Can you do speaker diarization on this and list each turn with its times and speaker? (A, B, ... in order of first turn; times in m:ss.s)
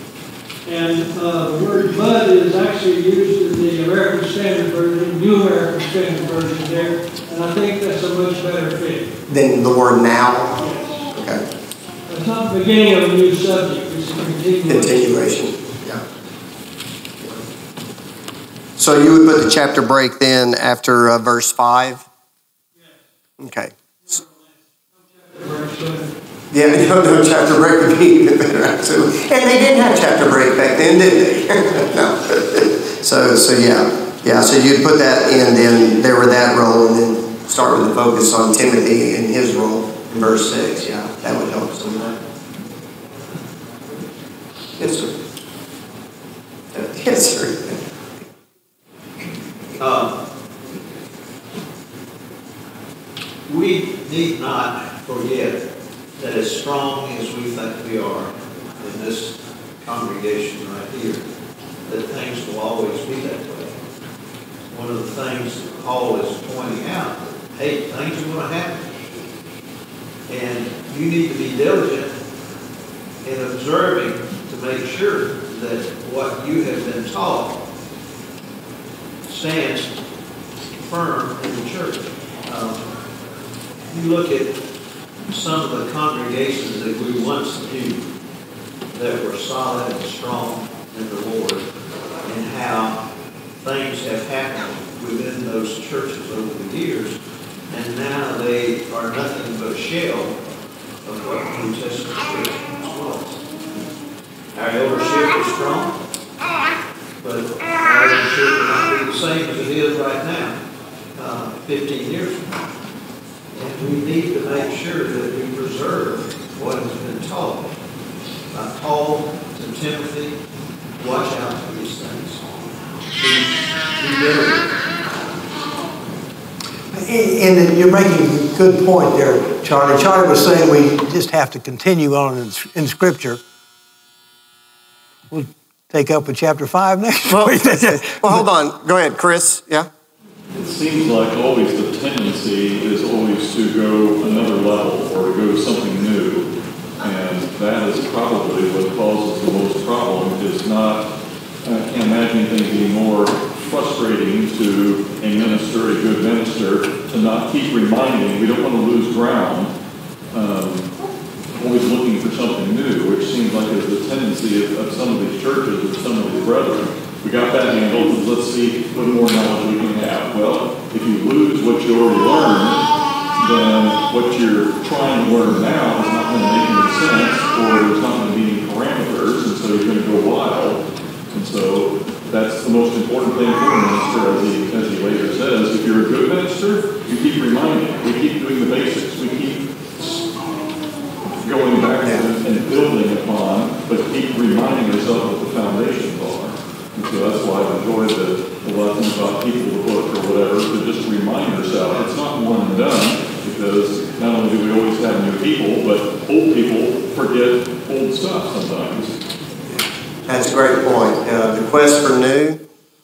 0:00.6-0:09.1 A
0:09.3-0:10.6 B
0:10.6-0:11.0 A
0:11.1-0:11.4 B
0:12.1-0:15.3 A
0:14.7-0:16.0 B
0:18.8-0:22.1 B
0:23.4-0:24.2 B
0:25.2-0:26.1 A
0:26.5-0:42.2 B
0:44.8-0:45.1 B
0:46.7-0:47.8 B
0:49.8-0:50.2 C
0:53.4-0:55.7 C
0:56.2-1:01.2 C
1:01.8-1:03.8 C
1:04.7-1:08.9 C
1:10.3-1:12.2 C
1:13.2-1:17.6 C
1:19.2-1:19.9 C
1:20.8-1:22.9 C
1:23.9-1:24.6 C
1:25.3-1:28.0 C
1:28.9-1:31.6 C
1:32.2-1:33.0 C
1:33.6-1:37.2 C
1:37.7-1:40.4 C
1:41.0-1:43.4 C
1:44.5-1:46.0 C
1:47.2-1:50.6 C
1:51.2-1:52.6 C
1:53.5-1:57.7 C
1:58.5-2:00.4 C
2:01.0-2:02.4 C
2:03.2-2:05.0 C
2:06.9-2:13.4 D
2:15.3-2:18.4 D
2:17.3-2:19.9 B
2:20.5-2:26.5 E
2:27.0-2:31.1 E
2:31.6-2:39.7 E
2:40.3-2:40.9 E
2:41.6-2:52.8 E
2:53.4-3:10.2 E
3:11.3-3:29.2 E
3:30.3-3:32.6 B